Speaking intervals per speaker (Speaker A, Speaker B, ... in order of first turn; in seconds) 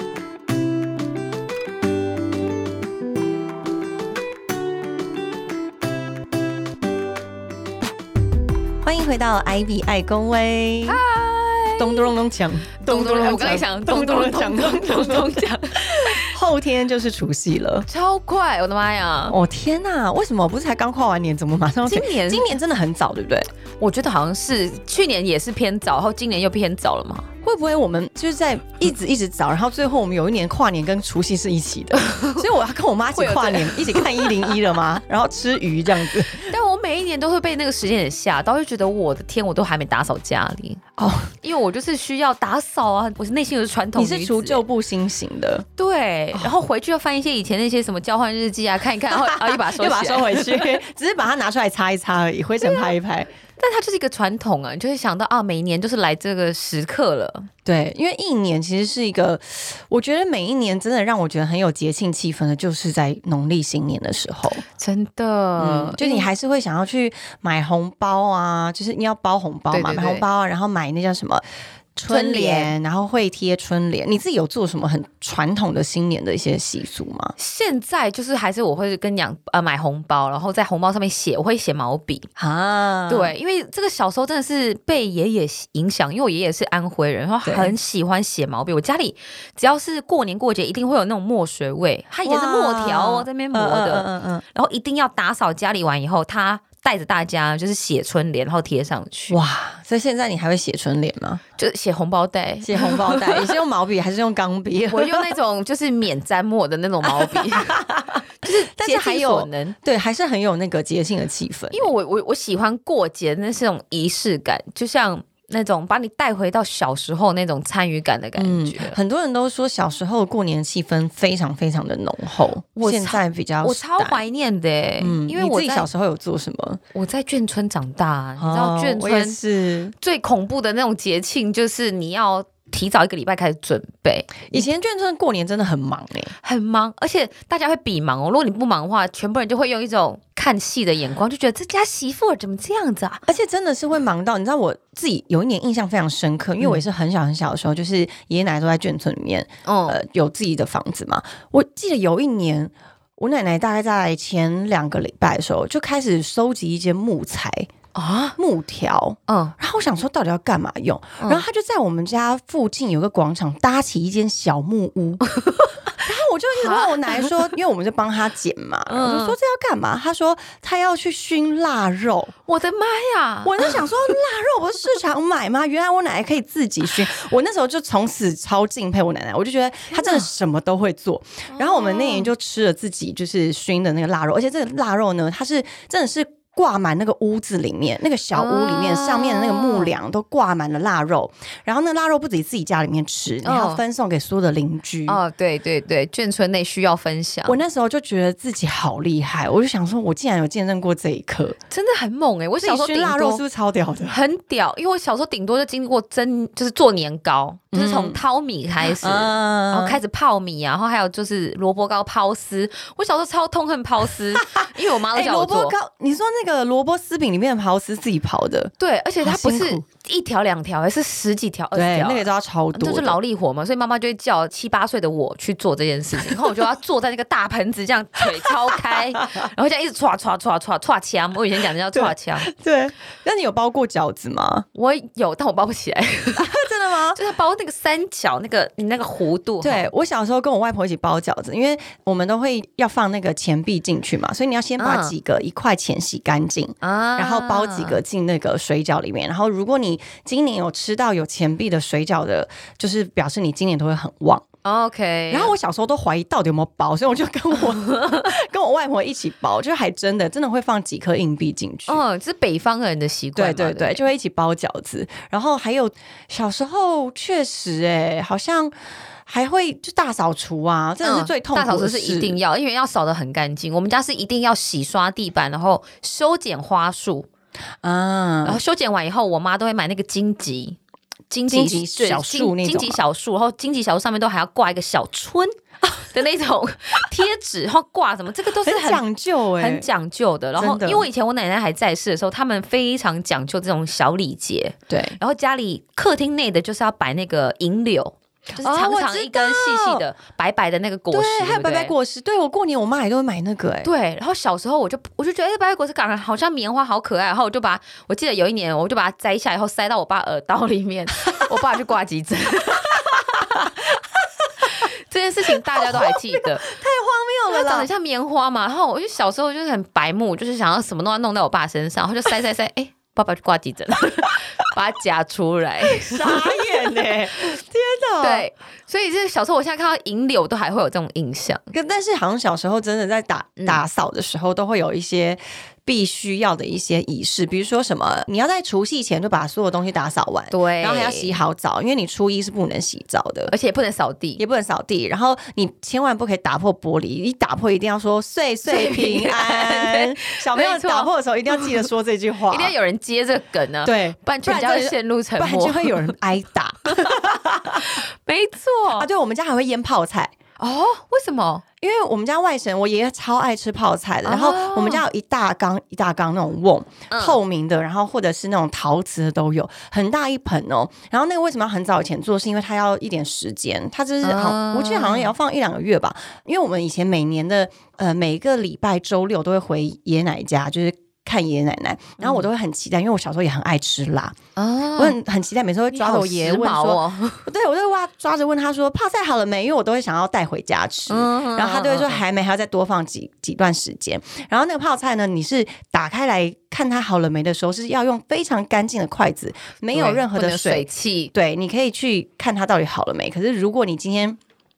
Speaker A: 8.8-11.0, 11.8-17.9, 19.3-23.5, 27.4-36.5, 41.0-41.3, 44.0-45.6, 49.1-53.3, 57.6-64.6, 65.6-71.4, 72.0-77.3, 82.4-83.3, 87.4-87.7, 92.2-94.4, 99.3-101.4, 102.6-105.3, 107.0-111.9, 118.4-124.2, 125.0-126.8, 128.4-129.9, 134.5-136.3, 143.2-157.7, 158.4-165.2, 166.0-172.3, 173.4-195.2, 197.4-201.6, 202.6-204.2, 207.7-208.2, 208.8-210.0, 215.1-219.8, 221.7-223.2, 231.9-234.7, 236.3-237.2, 239.6-254.4, 255.3-262.0, 263.3-268.7, 269.2-272.4, 277.8-278.6, 281.5-283.0, 288.6-289.9, 290.6-291.1, 294.9-295.2, 298.5-300.0, 301.1-303.9, 313.3-313.8, 315.6-317.9, 325.8-328.5, 331.7-343.5, 344.4-352.7, 353.8-357.9, 358.9-360.3, 361.8-384.4, 384.9-404.4
Speaker B: 10.8-12.1, 12.8-16.3, 17.9-19.4, 21.9-22.6, 23.8-27.3, 32.0-32.4, 33.1-34.6, 36.3-40.8, 41.4-44.6, 45.8-50.8, 52.6-52.9, 53.6-57.5, 64.7-66.3, 69.7-70.2, 72.1-72.7, 77.4-82.3, 83.1-99.4, 101.6-103.5, 104.9-107.8, 108.4-109.8, 111.7-119.0, 122.8-125.9, 126.9-129.4, 130.0-134.7, 136.4-143.2, 149.6-150.0, 157.9-158.3, 159.3-159.5, 161.2-161.4, 165.3-165.9, 166.6-167.5, 168.9-169.4, 172.4-173.9, 179.9-180.3, 181.5-182.3, 188.3-189.9, 193.4-193.8, 195.1-197.6, 201.7-203.4, 204.1-215.7, 218.8-232.5, 234.7-239.9, 244.8-245.1, 246.8-248.0, 254.6-255.5, 257.9-258.3, 261.9-264.0, 271.0-277.3, 278.4-280.8, 281.3-289.0, 289.6-301.9, 303.8-313.7, 314.6-316.6, 317.5-327.0, 328.2-331.6, 340.5-341.4, 343.5-344.4, 348.7-351.8, 352.5-356.1, 356.9-357.2, 357.7-359.1, 360.6-361.6, 364.2-365.0, 367.1-367.4, 374.2-375.3, 382.2-382.5, 384.6-385.2, 385.9-387.5, 391.1-392.2, 399.9-401.3